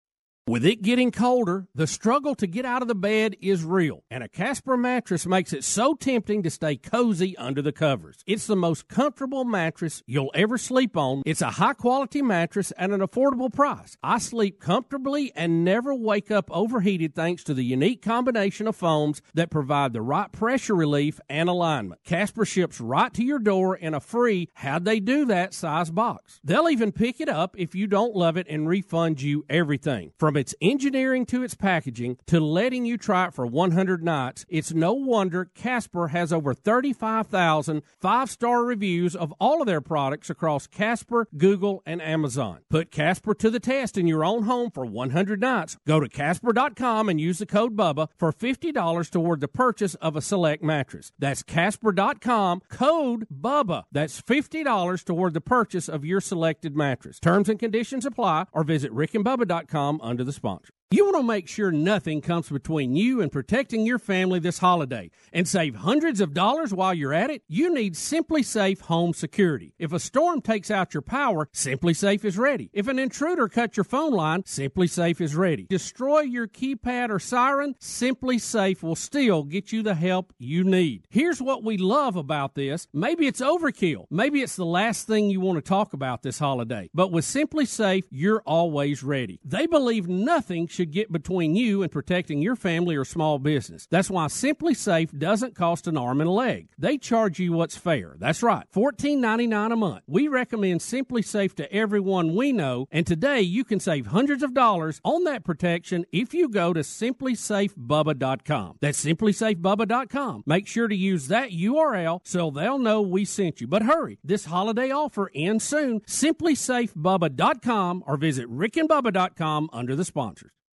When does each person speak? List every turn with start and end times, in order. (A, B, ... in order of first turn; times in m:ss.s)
0:00.5-2:00.5 A